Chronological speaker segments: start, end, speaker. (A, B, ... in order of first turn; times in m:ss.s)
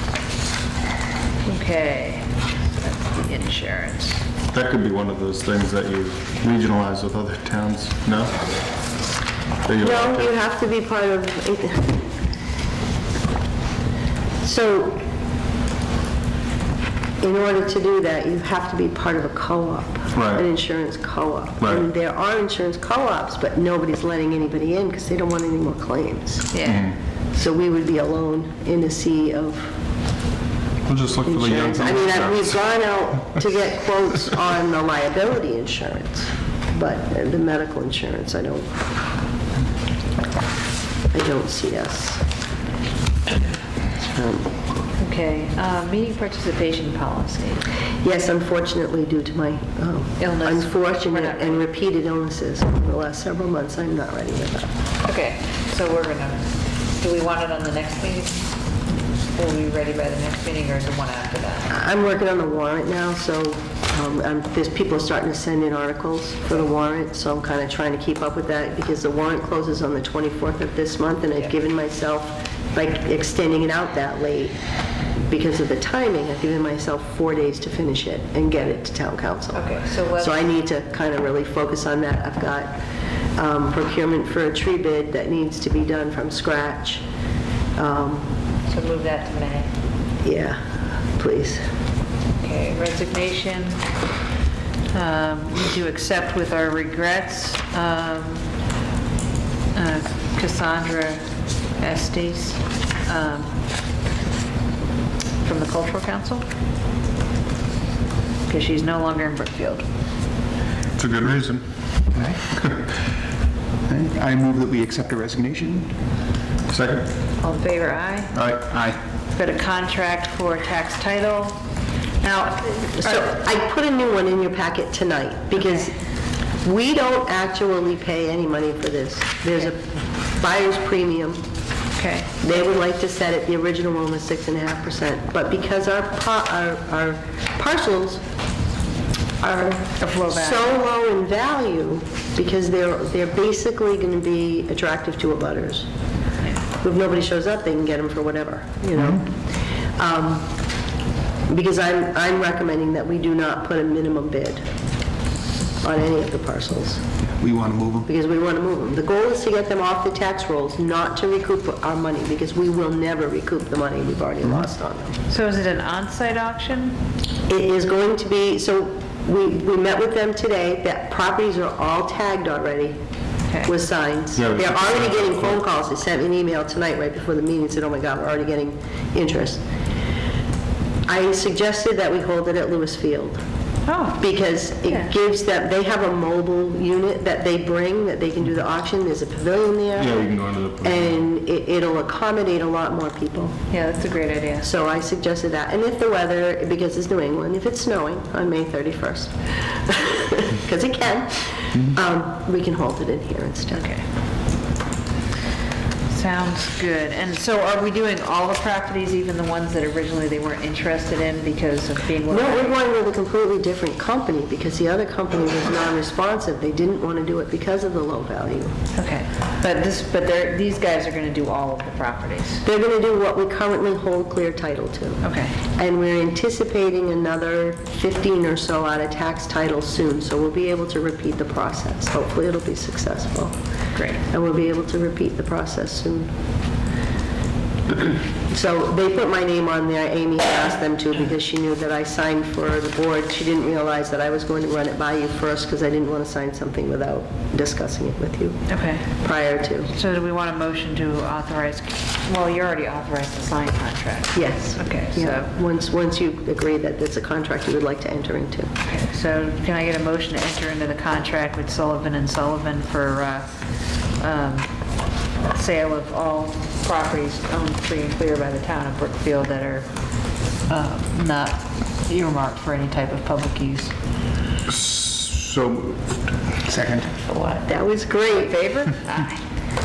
0:01.4-0:04.2 A
0:04.5-0:08.5 B
0:09.6-0:10.3 B
0:09.8-0:12.0 C
0:14.4-0:15.0 C
0:17.2-0:26.5 C
0:20.1-0:20.4 B
0:21.6-0:21.8 B
0:26.5-0:26.9 A
0:26.6-0:26.9 B
0:27.3-0:29.7 C
0:30.8-0:32.7 B
0:31.2-0:38.7 C
0:41.1-0:42.2 C
0:45.0-0:47.6 A
0:48.0-0:54.7 C
0:50.2-0:51.6 A
0:55.0-0:58.5 A
0:59.3-1:01.7 A
1:01.7-1:14.6 C
1:15.3-1:19.6 C
1:19.5-1:20.5 A
1:20.2-1:22.7 C
1:23.4-1:27.0 C
1:27.8-1:28.2 C
1:28.7-1:29.7 A
1:30.2-1:30.6 C
1:31.2-1:31.6 C
1:32.4-1:33.8 A
1:34.9-1:38.4 A
1:39.7-1:41.2 A
1:41.8-1:43.6 A
1:45.4-1:46.5 A
1:48.5-1:49.8 A
1:51.0-1:51.6 B
1:52.1-1:52.4 D
1:53.9-1:55.9 D
1:56.7-1:57.1 B
1:57.4-1:58.4 A
1:58.4-1:59.0 D
1:59.3-2:01.6 A
2:02.2-2:03.3 A
2:03.0-2:05.9 C
2:05.6-2:05.9 A
2:06.6-2:11.4 C
2:11.9-2:12.3 A
2:12.4-2:18.2 C
2:19.4-2:25.9 C
2:20.0-2:20.8 A
2:26.8-2:29.4 C
2:30.0-2:30.5 C
2:31.5-2:34.6 C
2:35.8-2:37.0 C
2:37.4-2:38.1 D
2:38.1-2:45.2 C
2:45.3-2:47.0 A
2:47.5-2:53.0 C
2:53.5-2:53.7 A
2:53.6-2:59.6 C
2:54.4-2:55.6 B
3:01.1-3:03.4 C
3:03.8-3:04.3 A
3:04.2-3:10.3 C
3:10.0-3:11.2 B
3:10.8-3:13.6 C
3:13.7-3:14.7 A
3:14.6-3:23.8 C
3:23.7-3:24.0 A
3:26.1-3:32.8 A
3:32.3-3:38.7 C
3:38.9-3:42.6 A
3:42.6-3:45.2 C
3:45.2-3:45.6 A
3:45.8-3:53.5 C
3:53.9-3:54.2 A
3:54.3-3:56.3 C
3:58.0-4:08.6 C
4:08.7-4:09.1 A
4:09.2-4:09.9 C
4:09.9-4:15.5 A
4:14.3-4:18.7 C
4:18.8-4:23.5 A
4:24.2-4:24.7 A
4:25.5-4:29.9 A
4:30.7-4:33.9 A
4:34.7-4:36.2 B
4:36.6-4:37.1 D
4:37.2-4:39.4 A
4:37.7-4:38.5 C